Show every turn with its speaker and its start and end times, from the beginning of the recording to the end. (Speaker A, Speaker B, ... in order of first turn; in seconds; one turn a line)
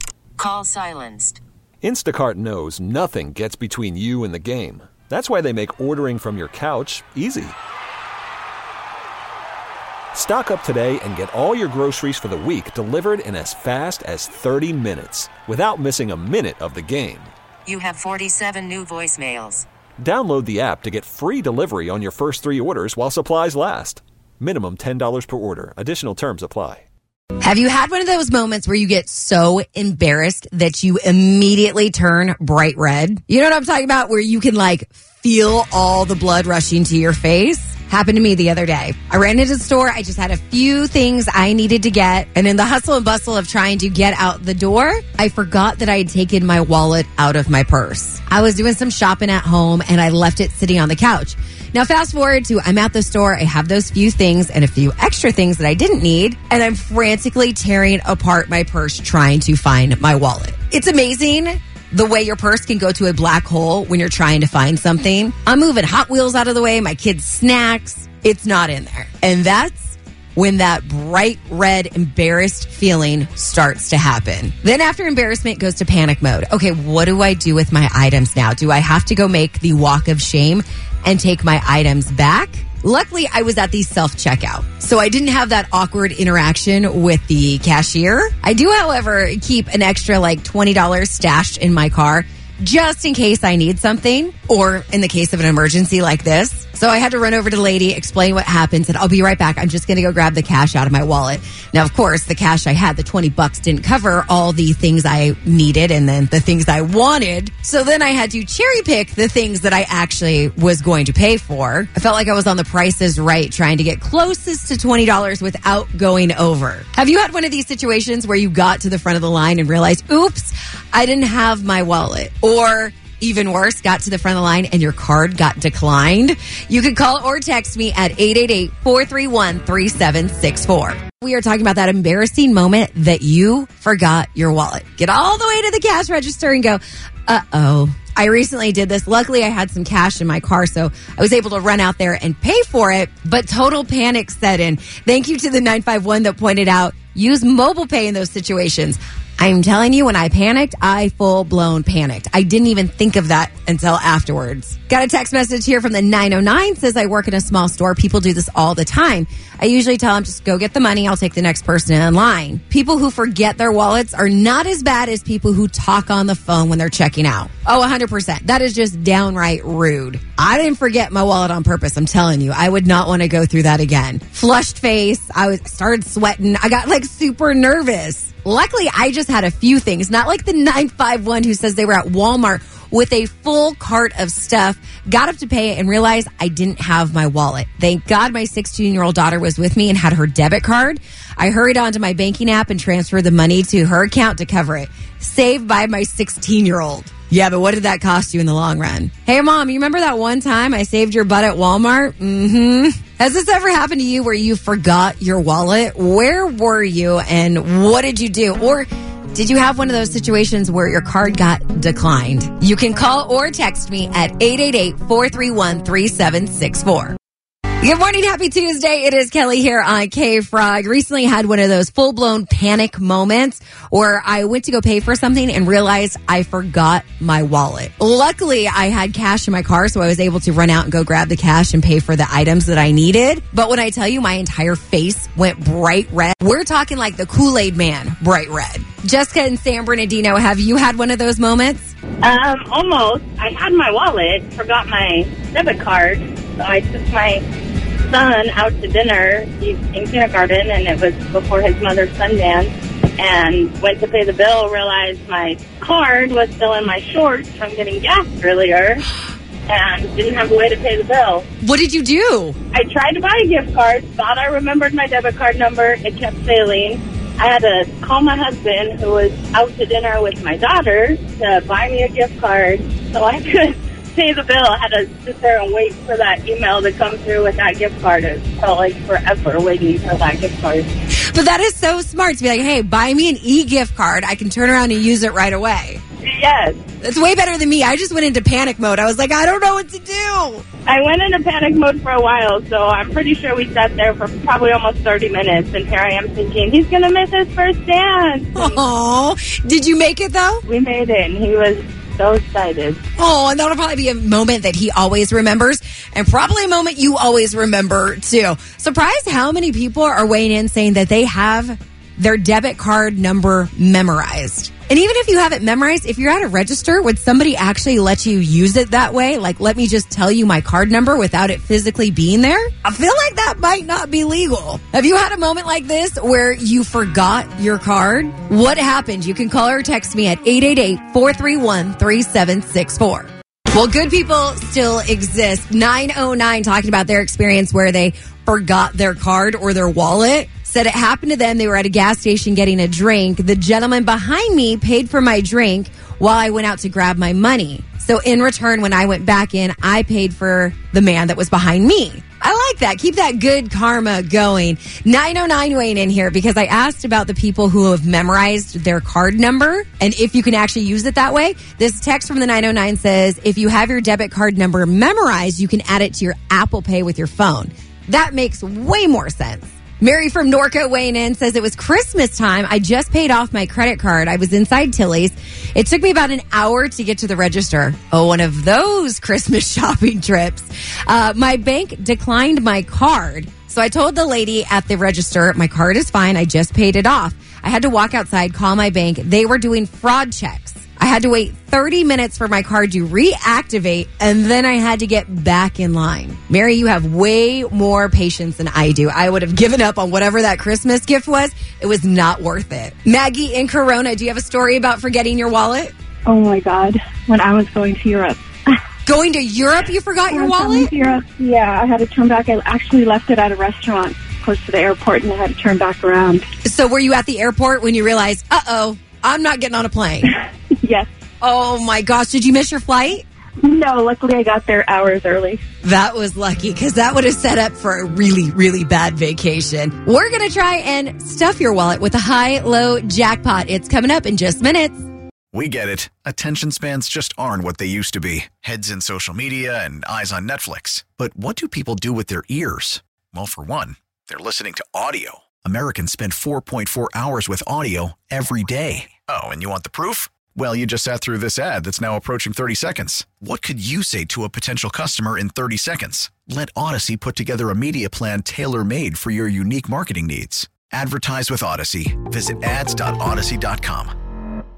Speaker A: 0.4-1.4
Speaker B: 1.8-7.5
Speaker B: 10.1-17.3
Speaker A: 17.6-19.6
Speaker B: 20.0-26.9
Speaker C: 27.4-217.2
Speaker C: 217.8-241.9
Speaker D: 242.2-247.4
Speaker D: 248.1-259.0
Speaker D: 259.7-261.4
Speaker C: 261.6-262.6
Speaker D: 262.7-280.9
Speaker C: 281.2-286.0
Speaker D: 286.2-286.8
Speaker C: 287.0-290.6
Speaker D: 290.9-298.8
Speaker C: 298.6-300.6
Speaker D: 300.7-303.0
Speaker C: 303.2-405.9
Speaker E: 406.3-408.4
Speaker C: 409.1-410.9
Speaker E: 410.8-416.4
Speaker C: 416.6-420.3
Speaker C: 421.4-423.2
Speaker E: 423.6-425.6
Speaker C: 425.8-435.1
Speaker F: 435.5-464.1